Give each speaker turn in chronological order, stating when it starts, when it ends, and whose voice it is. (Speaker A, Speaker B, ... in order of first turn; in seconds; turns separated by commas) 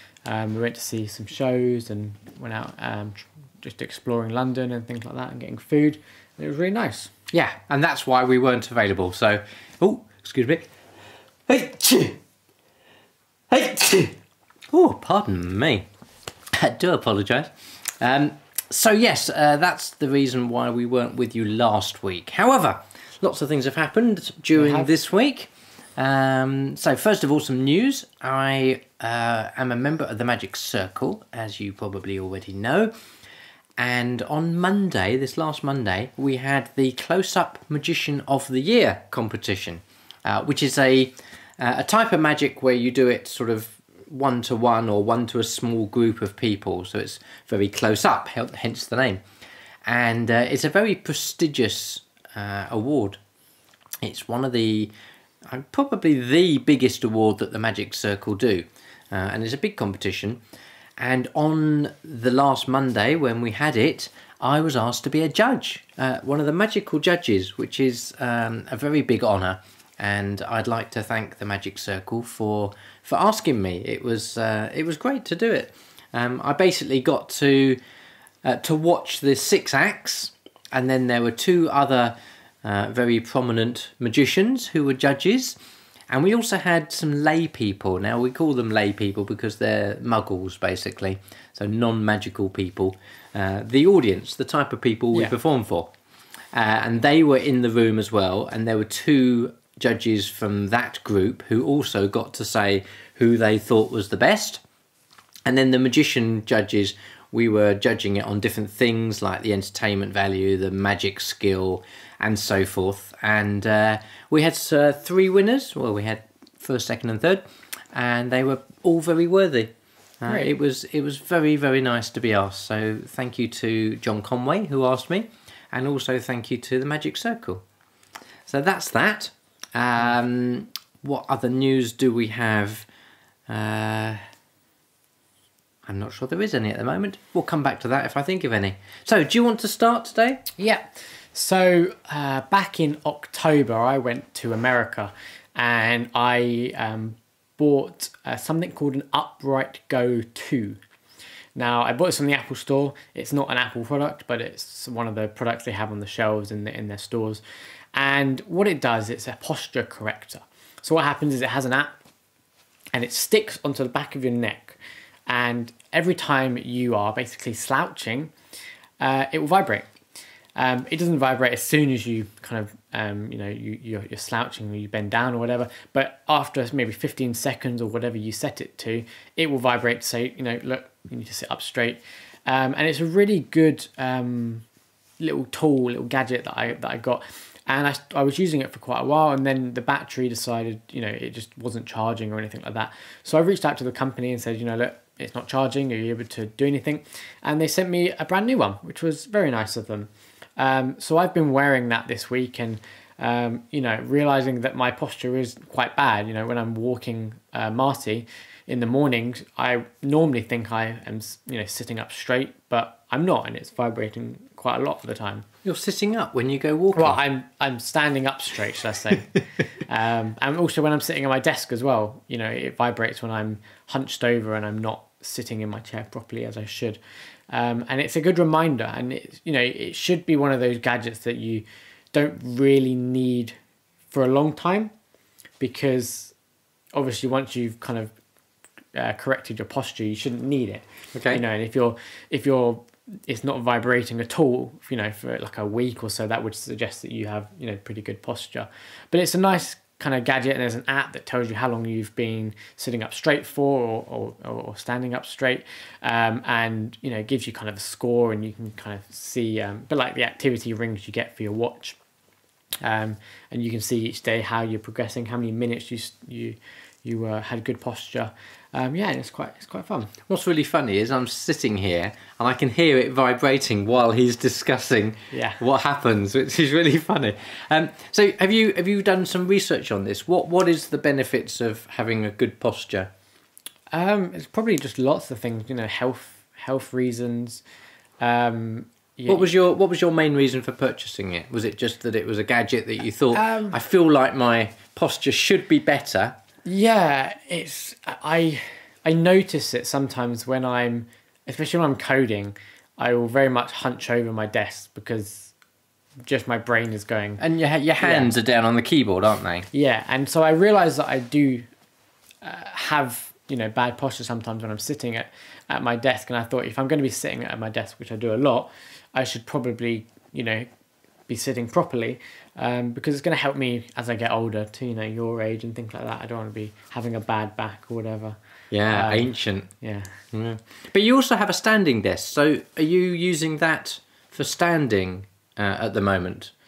Speaker A: 0.2-7.1, Speaker B: 7.3-10.7, Speaker B: 11.5-12.2, Speaker B: 13.5-14.2, Speaker B: 14.7-15.9, Speaker B: 16.5-32.9, Speaker A: 24.6-24.9, Speaker B: 33.8-49.2, Speaker B: 49.9-53.2, Speaker B: 54.0-54.9, Speaker B: 55.5-60.4, Speaker B: 61.0-77.8, Speaker B: 78.4-85.6, Speaker B: 86.1-95.9, Speaker B: 96.5-104.6, Speaker B: 105.5-127.6, Speaker B: 128.5-132.9, Speaker B: 133.5-134.2, Speaker B: 135.9-140.4, Speaker A: 140.6-150.8, Speaker A: 151.6-157.4, Speaker A: 157.9-161.9, Speaker A: 162.9-168.3, Speaker A: 169.0-169.9, Speaker A: 170.6-184.7, Speaker A: 185.2-215.5, Speaker B: 215.6-217.2, Speaker A: 216.9-219.3, Speaker A: 219.9-227.0, Speaker A: 227.5-233.6, Speaker A: 234.1-234.9, Speaker A: 235.6-236.3, Speaker A: 236.9-238.1, Speaker A: 238.9-262.0, Speaker B: 241.2-241.4, Speaker A: 262.8-270.1, Speaker B: 270.3-283.1, Speaker A: 275.3-275.6, Speaker A: 283.9-287.6, Speaker A: 288.2-289.5, Speaker B: 289.3-296.4, Speaker A: 293.3-293.8, Speaker A: 296.6-305.5, Speaker A: 306.3-307.4, Speaker B: 307.4-309.7, Speaker A: 308.0-308.3, Speaker A: 309.7-311.7, Speaker A: 312.4-320.7, Speaker A: 321.3-328.4, Speaker B: 328.7-329.7, Speaker A: 328.9-330.2, Speaker B: 330.3-336.5